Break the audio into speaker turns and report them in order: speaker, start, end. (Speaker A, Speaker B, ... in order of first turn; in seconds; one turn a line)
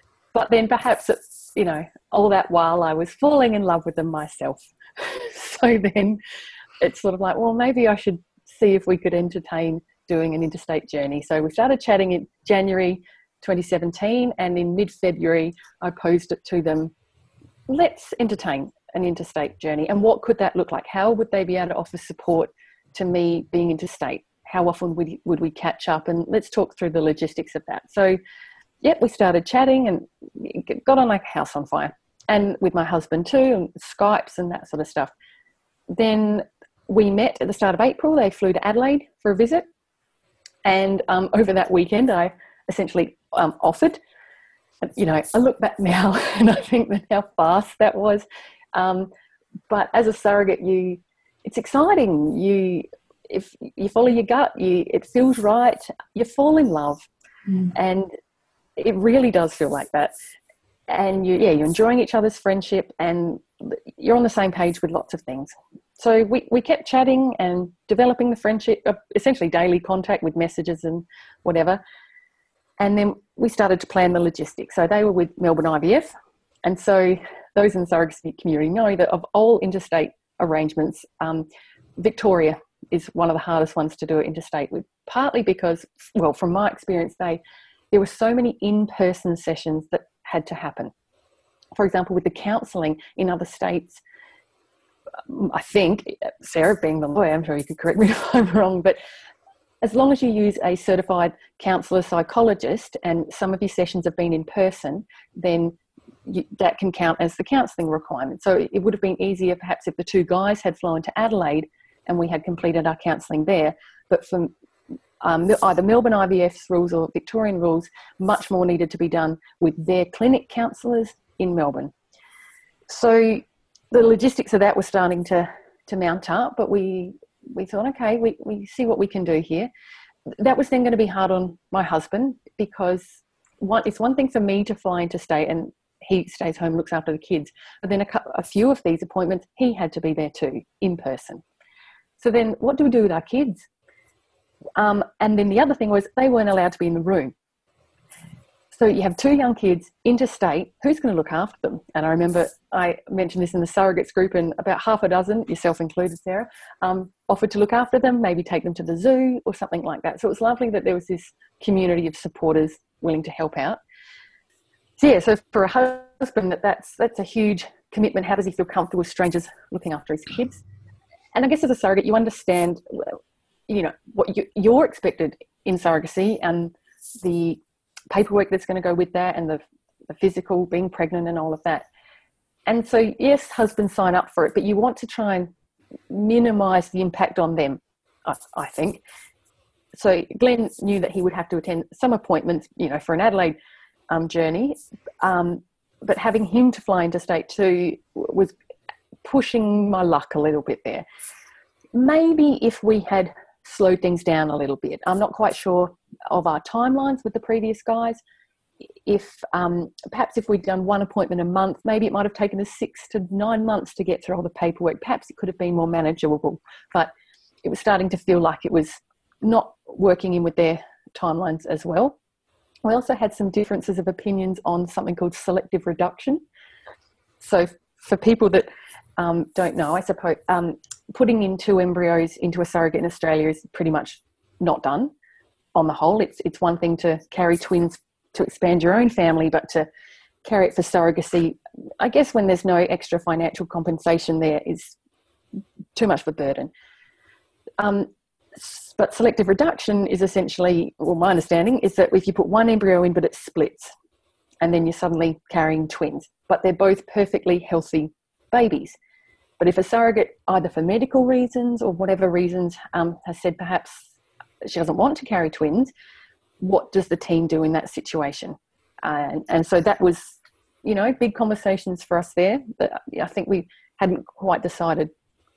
Speaker A: 0.3-6.2
Speaker A: 6.8-16.9
Speaker A: 17.7-28.2
Speaker A: 28.8-35.1
Speaker A: 35.9-39.6
Speaker A: 40.6-44.0
Speaker A: 44.8-49.1
Speaker A: 49.7-57.1
Speaker A: 57.7-58.1
Speaker A: 58.8-60.1
Speaker A: 60.9-71.8
Speaker A: 72.8-76.1
Speaker A: 76.7-81.5
Speaker A: 82.0-87.4
Speaker A: 87.9-90.9
Speaker A: 91.8-94.0
Speaker A: 95.3-99.0
Speaker A: 99.8-114.5
Speaker A: 115.2-121.9
Speaker A: 122.9-129.7
Speaker A: 130.4-141.4
Speaker A: 142.2-143.7
Speaker A: 144.8-147.3
Speaker A: 148.7-163.8
Speaker A: 165.0-170.6
Speaker A: 171.3-173.2
Speaker A: 173.7-181.9
Speaker A: 182.7-185.5
Speaker A: 186.1-189.0
Speaker A: 189.9-193.6
Speaker A: 194.1-198.5
Speaker A: 199.2-201.1
Speaker A: 201.9-208.2
Speaker A: 209.1-217.1
Speaker A: 217.6-222.2
Speaker A: 222.9-226.4
Speaker A: 227.4-235.1
Speaker A: 235.8-239.9
Speaker A: 240.4-245.0
Speaker A: 245.9-246.7
Speaker A: 247.8-253.9
Speaker A: 254.6-259.0
Speaker A: 259.6-264.1
Speaker A: 264.6-265.9
Speaker A: 266.6-275.1